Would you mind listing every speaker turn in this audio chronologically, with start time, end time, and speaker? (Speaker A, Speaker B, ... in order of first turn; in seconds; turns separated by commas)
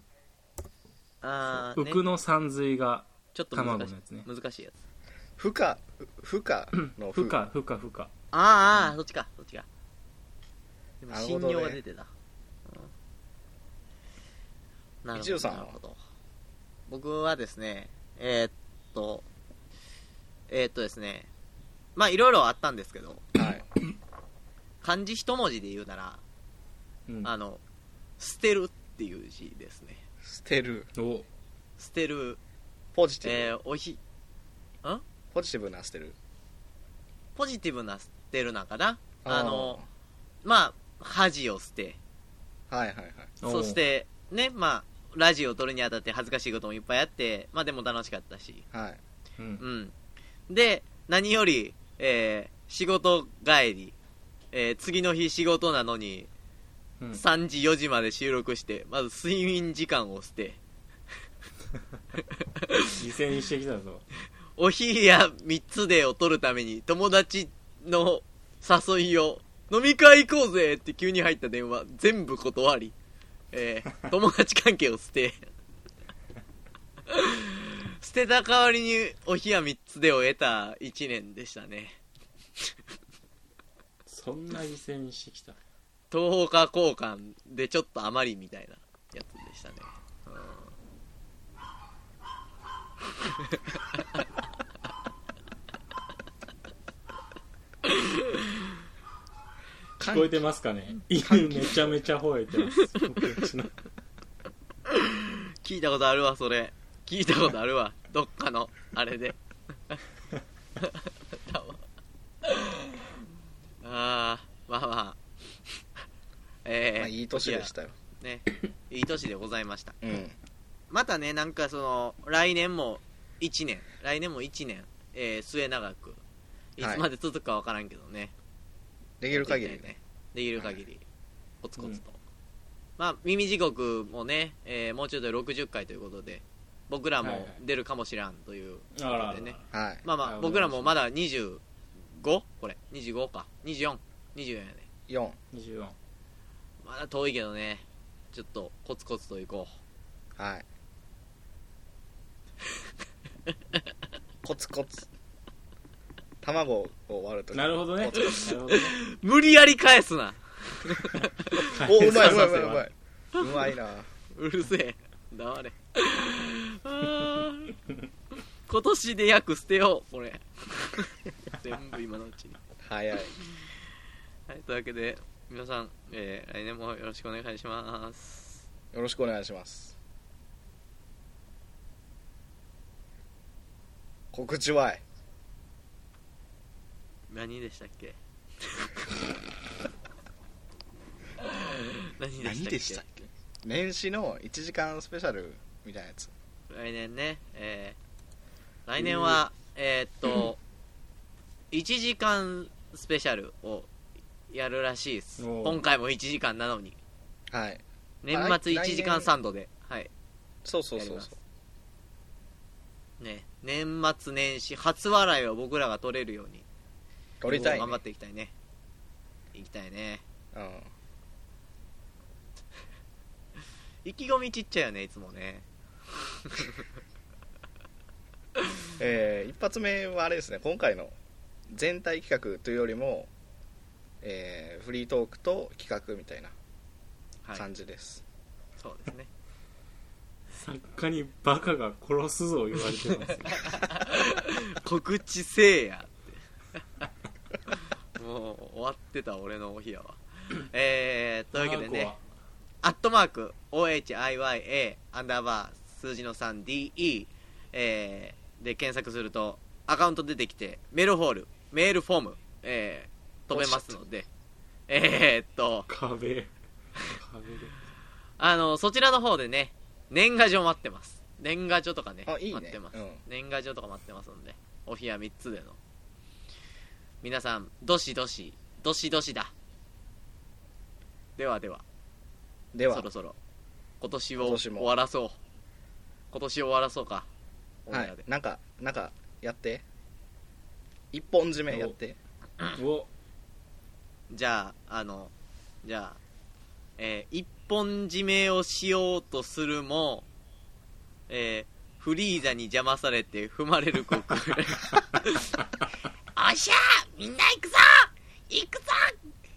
Speaker A: 1.2-2.0, Speaker B: 1.5-4.3, Speaker A: 3.3-4.7, Speaker C: 5.4-7.4, Speaker B: 6.7-8.1, Speaker A: 8.3-9.7, Speaker A: 11.0-12.1, Speaker C: 11.1-11.8, Speaker A: 12.7-12.9, Speaker A: 15.0-16.0, Speaker C: 15.2-15.8, Speaker A: 16.9-19.2, Speaker A: 20.5-21.3, Speaker A: 22.0-23.3, Speaker C: 23.4-23.7, Speaker A: 24.8-26.2, Speaker A: 27.2-27.6, Speaker A: 28.2-30.0, Speaker C: 30.2-30.9, Speaker B: 31.0-31.3, Speaker A: 31.8-32.4, Speaker C: 32.9-33.6, Speaker A: 33.2-34.0, Speaker C: 35.3-36.2, Speaker A: 37.4-39.8, Speaker C: 39.2-39.9, Speaker A: 40.4-42.0, Speaker C: 42.7-43.3, Speaker B: 43.4-43.8, Speaker A: 43.5-48.6, Speaker C: 48.7-49.0, Speaker B: 49.4-49.6, Speaker A: 49.6-49.9, Speaker A: 50.5-54.0, Speaker A: 54.5-56.3, Speaker A: 57.1-60.6, Speaker B: 63.0-64.0, Speaker A: 64.6-73.0, Speaker A: 73.5-75.4, Speaker A: 77.1-82.0, Speaker B: 84.1-85.6, Speaker A: 86.1-90.7, Speaker C: 100.0-100.5, Speaker B: 100.0-103.8, Speaker C: 101.2-102.0, Speaker A: 104.9-109.4, Speaker A: 110.8-111.8, Speaker A: 112.5-112.8, Speaker A: 113.8-115.2, Speaker A: 116.7-120.0, Speaker C: 117.0-118.0, Speaker C: 120.0-120.4, Speaker A: 120.9-126.2, Speaker A: 126.8-128.3, Speaker C: 126.8-127.0, Speaker C: 129.2-129.9, Speaker A: 129.3-131.0, Speaker A: 131.6-132.2, Speaker A: 133.0-144.9, Speaker B: 137.2-137.6, Speaker B: 138.9-141.0, Speaker C: 139.7-140.0, Speaker C: 145.1-145.4, Speaker B: 145.5-146.0, Speaker A: 146.8-149.8, Speaker C: 150.4-150.7, Speaker C: 154.4-155.1, Speaker C: 156.4-158.5, Speaker B: 157.5-158.9, Speaker A: 158.1-162.5, Speaker B: 161.7-162.9, Speaker C: 161.8-164.1, Speaker A: 163.4-163.7, Speaker A: 164.3-167.7, Speaker A: 168.7-172.6, Speaker C: 172.8-173.3, Speaker A: 174.5-178.6, Speaker C: 178.9-179.9, Speaker C: 184.3-185.0, Speaker A: 187.3-189.1, Speaker A: 191.4-193.0, Speaker C: 192.4-196.3, Speaker A: 196.7-198.0, Speaker A: 198.9-200.6, Speaker B: 199.0-199.4, Speaker A: 201.7-203.9, Speaker A: 204.5-207.0, Speaker B: 205.4-205.8, Speaker C: 207.5-209.3, Speaker A: 208.2-210.1, Speaker C: 210.7-211.4, Speaker A: 211.0-211.3, Speaker A: 213.2-216.7, Speaker C: 217.4-218.0, Speaker A: 217.4-218.5, Speaker A: 219.5-220.2, Speaker C: 220.5-220.9, Speaker A: 224.1-225.7, Speaker A: 226.5-226.8, Speaker C: 229.0-231.1, Speaker C: 231.7-233.3, Speaker C: 234.2-236.5, Speaker C: 237.6-238.2, Speaker A: 238.8-239.3, Speaker B: 240.5-243.8, Speaker A: 243.9-246.8, Speaker A: 248.2-252.1, Speaker B: 251.5-252.2, Speaker A: 252.8-264.3, Speaker C: 263.5-264.0, Speaker A: 264.9-265.9, Speaker B: 265.9-266.5, Speaker B: 267.1-267.8, Speaker A: 268.4-275.8, Speaker C: 272.3-273.2, Speaker A: 277.2-279.5, Speaker A: 281.4-281.8, Speaker C: 282.7-283.1, Speaker A: 282.9-283.4, Speaker A: 284.0-285.4, Speaker C: 284.4-284.9, Speaker A: 286.3-287.3, Speaker A: 287.9-288.2, Speaker C: 287.9-289.8, Speaker C: 291.1-292.2, Speaker B: 291.7-291.9, Speaker B: 292.8-293.1, Speaker A: 294.3-295.3, Speaker A: 295.8-296.2, Speaker A: 297.0-300.3, Speaker A: 301.3-305.5, Speaker A: 306.4-309.2